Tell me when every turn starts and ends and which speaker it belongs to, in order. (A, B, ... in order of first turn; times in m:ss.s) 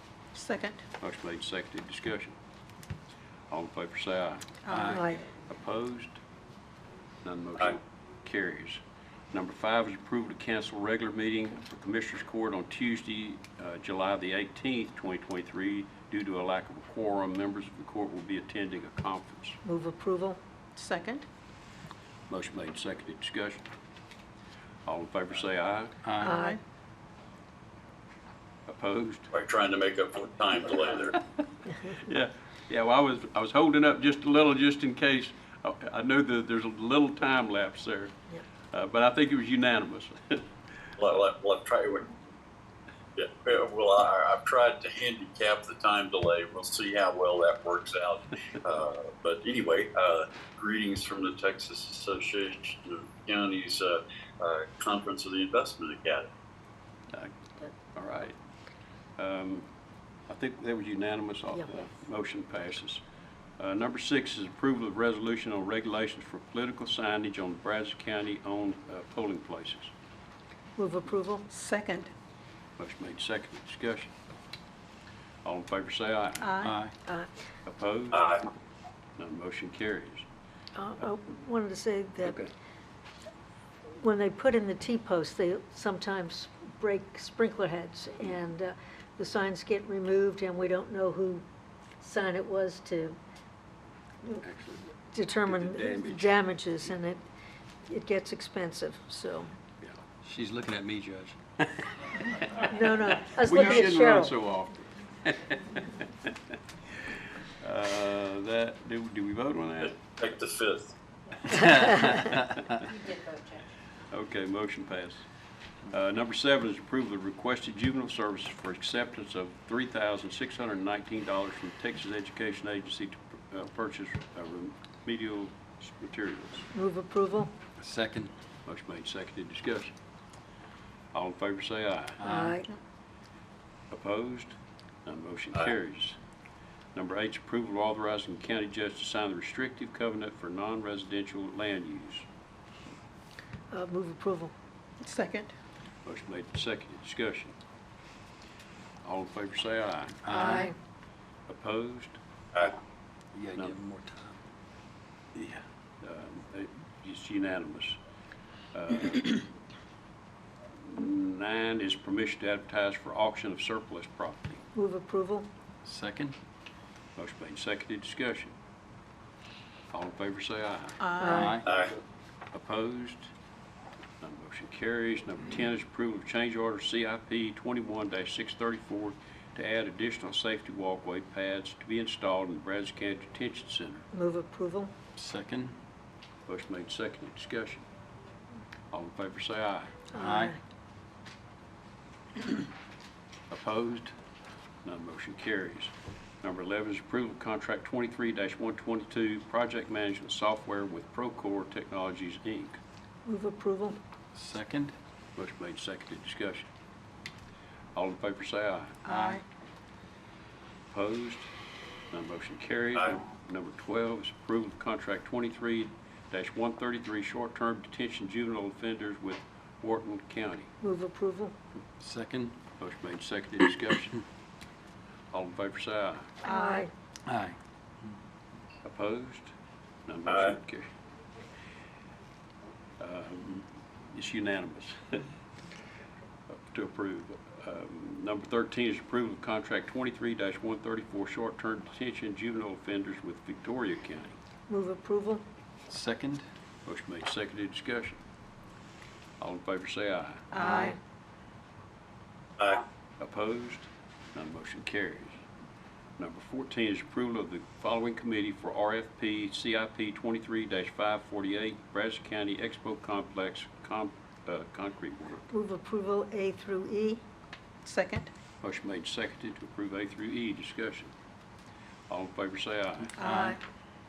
0:00.4-0:00.8 A
0:01.0-0:02.4 B
0:03.5-0:06.2 B
0:04.6-0:05.0 A
0:04.7-0:05.0 C
0:07.2-0:08.8 B
0:09.3-0:19.6 B
0:19.6-0:20.4 D
0:20.8-0:21.3 A
0:22.3-0:23.6 B
0:24.9-0:26.0 B
0:26.0-0:26.3 C
0:26.2-0:26.6 A
0:26.2-0:26.6 D
0:28.7-0:29.3 B
0:29.3-0:31.2 E
0:31.8-0:38.2 B
0:38.7-0:40.4 B
0:41.0-0:42.2 E
0:43.2-0:56.3 E
0:57.9-0:58.4 B
0:59.2-0:59.7 B
1:00.3-1:03.0 B
1:03.6-1:09.9 B
1:10.8-1:11.5 D
1:11.5-1:12.1 A
1:12.8-1:14.1 B
1:15.4-1:16.6 B
1:16.4-1:16.8 A
1:16.6-1:16.9 C
1:17.7-1:18.4 B
1:18.1-1:18.4 E
1:19.2-1:20.3 B
1:20.8-1:22.4 D
1:22.2-1:22.5 B
1:24.0-1:31.4 D
1:32.0-1:33.2 D
1:34.4-1:34.9 B
1:35.1-1:37.2 D
1:35.5-1:36.3 B
1:37.9-1:39.5 D
1:40.2-1:41.4 C
1:42.4-1:46.4 B
1:42.7-1:44.3 D
1:47.0-1:50.0 B
1:50.0-1:51.0 E
1:51.5-1:52.6 C
1:51.8-1:52.9 B
1:54.1-1:55.3 B
1:55.9-2:06.7 B
2:06.7-2:07.5 D
2:07.8-2:08.3 C
2:08.7-2:09.9 B
2:11.1-2:12.2 B
2:12.2-2:12.6 C
2:12.2-2:12.7 D
2:13.9-2:16.2 B
2:17.0-2:22.3 B
2:23.7-2:24.5 D
2:25.0-2:25.5 A
2:26.0-2:27.6 B
2:29.0-2:30.3 B
2:30.2-2:30.7 C
2:30.3-2:30.7 D
2:31.5-2:32.2 B
2:33.3-2:34.4 C
2:35.4-2:38.0 B
2:38.7-2:39.5 B
2:40.8-2:44.6 B
2:44.8-2:45.5 D
2:45.8-2:46.4 C
2:47.2-2:48.6 B
2:49.9-2:51.6 B
2:51.0-2:51.4 A
2:51.2-2:51.6 D
2:51.3-2:51.7 C
2:51.6-2:51.9 E
2:52.5-2:53.3 B
2:54.2-3:04.1 B
3:04.1-3:04.9 D
3:05.2-3:05.8 C
3:06.5-3:07.9 B
3:08.9-3:10.0 B
3:10.1-3:10.6 D
3:10.2-3:10.6 C
3:13.5-3:14.1 B
3:14.8-3:22.8 B
3:23.3-3:24.0 D
3:24.3-3:25.0 C
3:25.4-3:26.7 B
3:28.0-3:29.0 B
3:29.0-3:29.4 A
3:29.1-3:29.4 C
3:30.9-3:31.5 B
3:32.1-3:40.7 B
3:40.8-3:41.5 D
3:42.0-3:42.6 C
3:42.8-3:44.2 B
3:45.3-3:46.4 B
3:46.4-3:46.9 D
3:46.4-3:46.9 A
3:47.3-3:47.6 C
3:48.8-3:49.5 B
3:50.1-3:50.9 B
3:50.3-3:50.5 E
3:53.0-3:55.2 B
3:56.5-4:04.4 B
4:04.7-4:05.4 D
4:05.9-4:06.4 C
4:06.9-4:08.2 B
4:09.4-4:10.9 B
4:10.5-4:11.0 A
4:13.2-4:15.4 B
4:16.2-4:25.5 B
4:25.5-4:27.2 D
4:27.8-4:28.3 A
4:28.6-4:31.1 B
4:32.1-4:33.2 B
4:33.2-4:33.6 A
4:33.2-4:33.6 C